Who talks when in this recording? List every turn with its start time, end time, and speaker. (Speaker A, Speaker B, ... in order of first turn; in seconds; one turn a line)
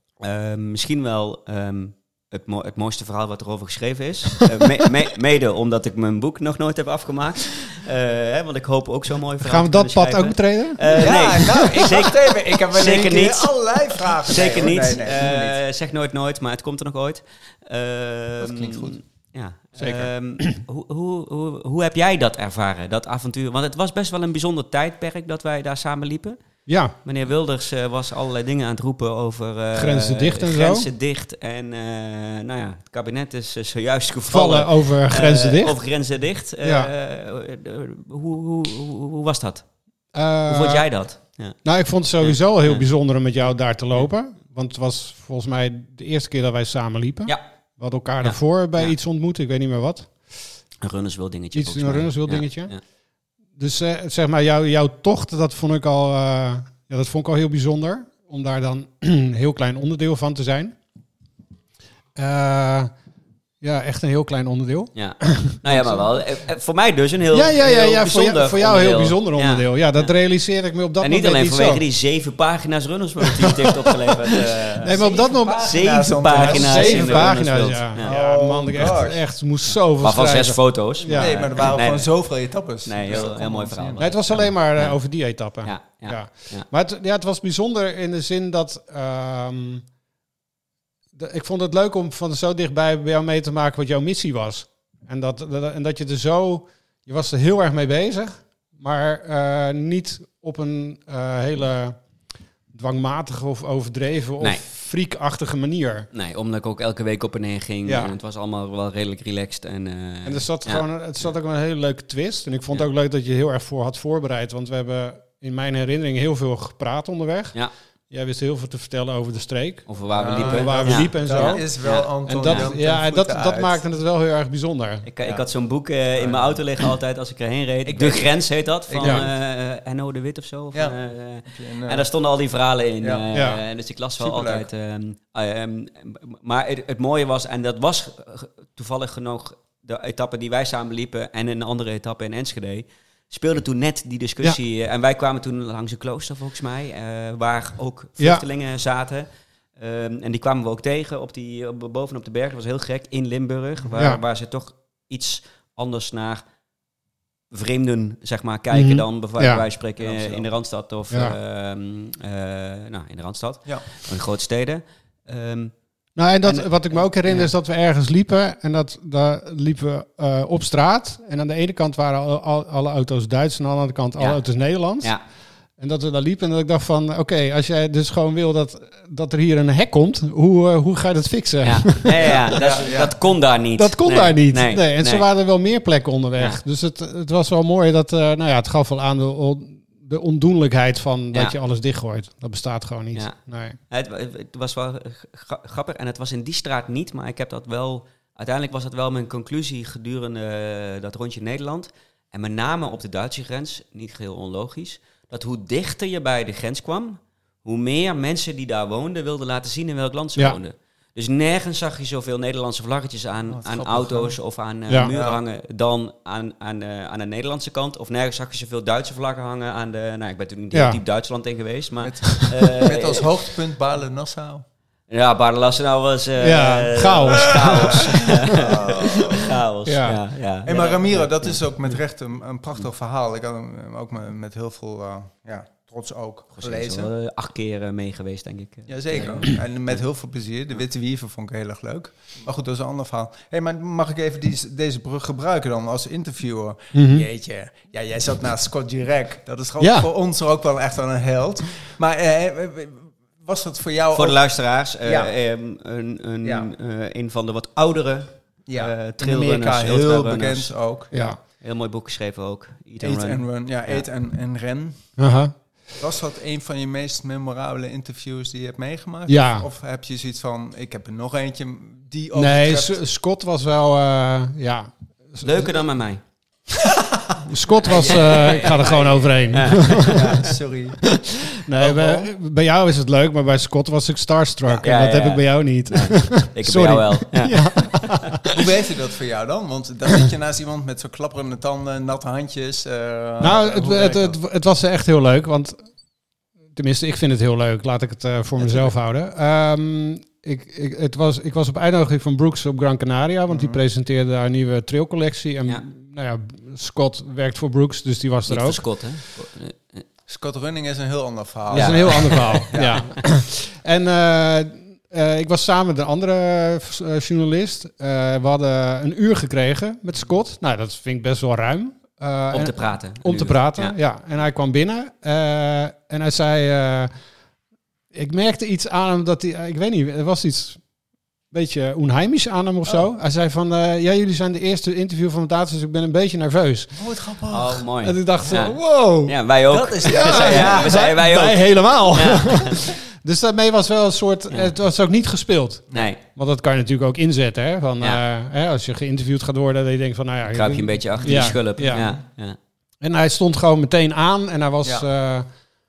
Speaker A: 0.2-26.4
Speaker B: 9.4-11.9
Speaker C: 10.9-15.6
Speaker C: 18.4-19.0
Speaker B: 19.8-20.6
Speaker B: 26.7-27.0
Speaker A: 27.0-39.6
Speaker B: 29.8-30.9
Speaker B: 34.3-35.8
Speaker B: 36.6-36.9
Speaker B: 40.1-40.9
Speaker A: 40.5-41.6
Speaker B: 41.6-50.1
Speaker A: 42.2-42.9
Speaker A: 48.2-48.9
Speaker A: 50.8-52.8
Speaker B: 51.5-52.7
Speaker B: 53.6-60.8
Speaker B: 62.2-62.9
Speaker B: 63.6-66.1
Speaker A: 65.0-70.1
Speaker B: 67.3-71.8
Speaker A: 71.0-75.0
Speaker B: 73.2-74.1
Speaker B: 74.8-81.8
Speaker C: 74.8-77.4
Speaker A: 75.6-78.1
Speaker C: 78.0-79.2
Speaker A: 80.0-82.1
Speaker C: 81.1-84.1
Speaker A: 82.8-85.0
Speaker B: 84.0-89.8
Speaker A: 85.6-86.7
Speaker B: 91.2-102.0
Speaker B: 102.7-106.1
Speaker A: 106.1-110.8
Speaker B: 107.9-108.1
Speaker B: 110.2-117.6
Speaker B: 118.1-121.7
Speaker A: 119.9-122.7
Speaker C: 120.2-123.8
Speaker B: 122.3-125.1
Speaker A: 125.0-156.4
Speaker C: 126.2-126.6
Speaker C: 127.9-128.4
Speaker C: 128.9-129.3
Speaker C: 130.7-132.1
Speaker B: 133.3-133.6
Speaker C: 134.2-134.7
Speaker A: 157.5-165.7
Speaker B: 158.7-159.6
Speaker C: 160.0-160.5
Speaker B: 161.1-161.4
Speaker B: 166.2-175.2
Speaker A: 166.4-167.5
Speaker B: 175.8-182.7
Speaker A: 181.6-185.2
Speaker C: 182.2-183.1
Speaker B: 183.8-193.8
Speaker A: 193.9-223.3
Speaker C: 213.5-214.4
Speaker C: 215.0-215.4
Speaker B: 220.7-221.0
Speaker C: 222.0-224.6
Speaker A: 225.1-231.6
Speaker B: 226.4-228.5
Speaker C: 227.6-229.6
Speaker B: 229.9-230.2
Speaker C: 230.7-237.1
Speaker A: 236.6-240.0
Speaker C: 238.9-254.4
Speaker B: 246.9-247.3
Speaker B: 249.8-250.1
Speaker A: 254.1-260.7
Speaker C: 255.0-255.3
Speaker C: 256.4-256.7
Speaker C: 258.7-261.2
Speaker B: 261.1-261.4
Speaker A: 261.2-264.0
Speaker C: 263.0-265.1
Speaker B: 265.2-265.5
Speaker C: 266.0-273.0
Speaker B: 269.3-269.7
Speaker B: 272.3-275.7
Speaker A: 275.4-276.2
Speaker C: 276.8-281.1
Speaker B: 277.5-280.5
Speaker A: 277.8-280.5
Speaker B: 281.5-288.6
Speaker C: 281.8-282.3
Speaker A: 284.8-288.3
Speaker C: 288.5-294.4
Speaker B: 293.4-295.8
Speaker B: 296.8-308.8
Speaker A: 298.6-298.9
Speaker C: 303.5-303.8
Speaker A: 308.5-310.1
Speaker C: 310.3-313.1
Speaker B: 311.7-327.1
Speaker A: 311.7-313.2
Speaker A: 322.5-324.0
Speaker B: 328.1-330.8
Speaker B: 331.5-337.0
Speaker C: 336.9-337.8
Speaker A: 337.5-342.9
Speaker B: 338.0-339.4
Speaker C: 339.7-341.1
Speaker B: 340.0-352.1
Speaker A: 345.9-346.2
Speaker A: 350.5-352.6
Speaker C: 351.9-352.2
Speaker B: 353.0-355.5